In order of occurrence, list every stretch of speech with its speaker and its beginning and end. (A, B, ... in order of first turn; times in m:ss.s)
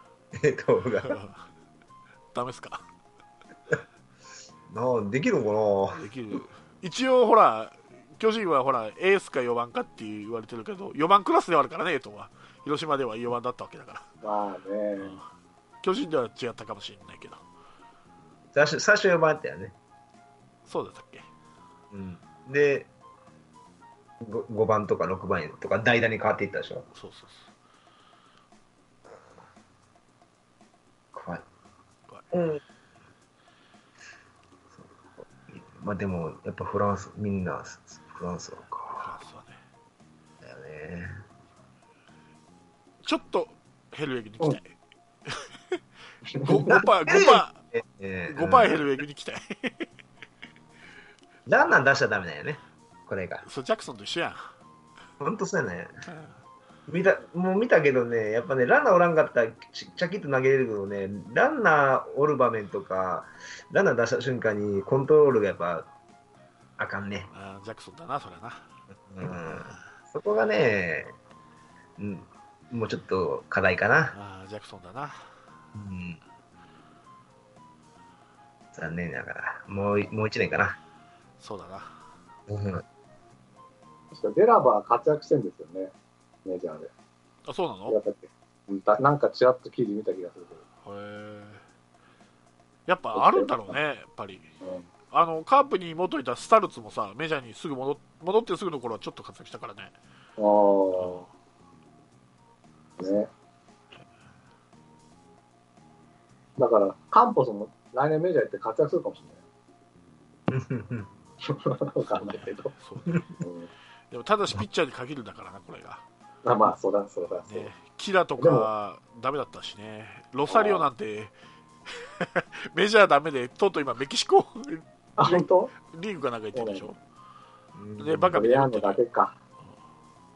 0:00.3-0:01.2 A
0:01.0-0:01.4 B
0:02.3-0:02.8 B
0:04.7-0:06.1 A
0:06.0-0:14.0 B
0:14.2-0:15.2 C
0:15.8-0:17.4 B
0:18.5-0:19.8 A
0:20.7-0:21.3 B
0:21.9-0:22.9 A
0:24.2-0:26.9 A
0:26.9-0:27.5 B
0:31.1-0:31.4 A
0:32.3-0:32.6 A
0:34.7-0:39.1 A
0:38.9-0:39.6 B
0:40.4-0:41.2 A
0:43.0-0:44.7 B
0:45.3-0:45.8 B
0:46.3-0:46.7 C
0:46.4-0:47.6 B
0:46.7-0:48.9 A
0:48.3-0:49.9 B
0:51.5-0:53.4 A
0:53.4-0:54.5 B
0:55.2-0:56.0 A
0:56.1-0:56.3 B
0:56.9-1:05.9 A
1:06.8-1:07.3 A
1:07.3-1:08.7 B
1:09.1-1:11.2 A
1:12.0-1:14.2 A
1:14.1-1:15.3 B
1:15.8-1:16.2 A
1:18.7-1:20.8 A
1:21.4-1:22.0 B
1:22.5-1:22.8 A
1:24.1-1:25.9 C
1:26.4-1:26.9 C
1:27.5-1:28.0 B
1:27.9-1:30.6 C
1:30.8-1:31.6 B
1:32.9-1:34.5 B
1:33.1-1:33.8 C
1:34.6-1:34.9 C
1:35.1-1:39.9 B
1:40.4-1:41.2 C
1:41.0-1:41.3 B
1:43.0-1:43.3 C
1:46.6-1:49.4 C
1:50.5-1:51.1 A
1:51.4-1:52.7 C
1:52.1-1:53.3 B
1:53.4-1:53.7 C
1:54.1-1:56.0 B
1:56.4-1:57.7 C
1:57.5-2:01.3 B
1:58.4-1:58.7 C
2:00.5-2:00.9 C
2:01.9-2:07.0 B
2:05.2-2:05.7 C
2:06.5-2:06.9 C
2:07.8-2:08.4 A
2:08.0-2:09.0 B
2:08.3-2:09.4 C